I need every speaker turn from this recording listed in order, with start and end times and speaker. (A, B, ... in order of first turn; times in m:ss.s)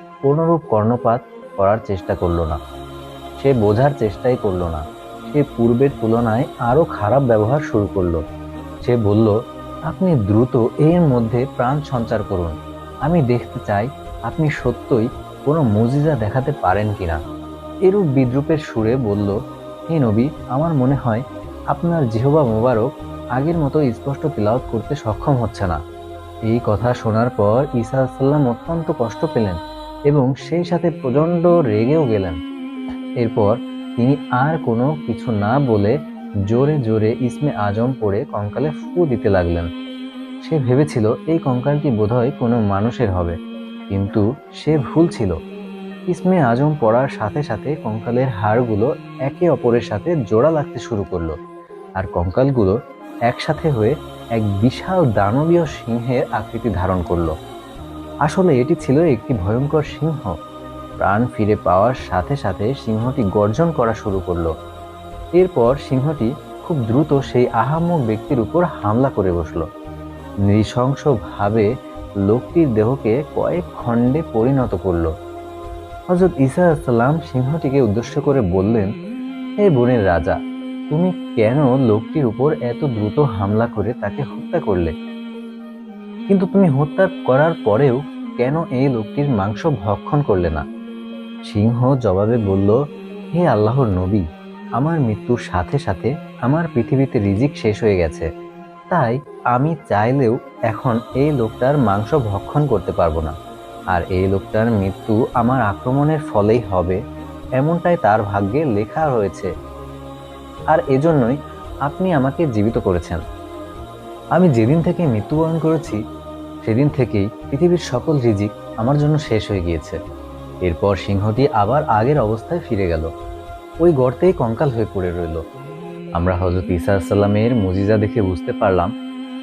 0:00.2-0:02.6 A
0:03.4-0:08.2 A
0:08.8-0:09.3 A
0:09.9-0:17.2 A
0:17.8-0:19.4 A
0:19.9-0:25.8 A
0:26.5-0:29.6 A
0:30.1-0:32.4 A
0:33.2-0:35.9 A
0:36.5-0:39.7 A
0:40.4-0:43.4 A
0:43.9-0:45.4 A
0:46.1-0:51.4 A
0:52.0-0:52.8 A
0:53.3-0:57.3 A
0:58.2-1:00.4 A
1:01.0-1:04.5 A
1:05.4-1:09.6 A
1:10.5-1:11.7 A
1:12.2-1:15.1 A
1:16.1-1:18.9 A
1:19.6-1:20.4 A
1:20.9-1:24.9 A
1:26.3-1:30.6 A
1:31.4-1:32.8 A
1:33.3-1:34.2 A
1:34.8-1:38.3 A
1:38.9-1:43.3 A
1:43.9-1:47.0 A
1:47.6-1:49.5 A
1:50.7-1:53.2 A
1:54.4-1:56.0 A
1:56.6-2:00.0 A
2:00.6-2:03.1 A
2:03.8-2:05.4 A
2:06.2-2:08.9 A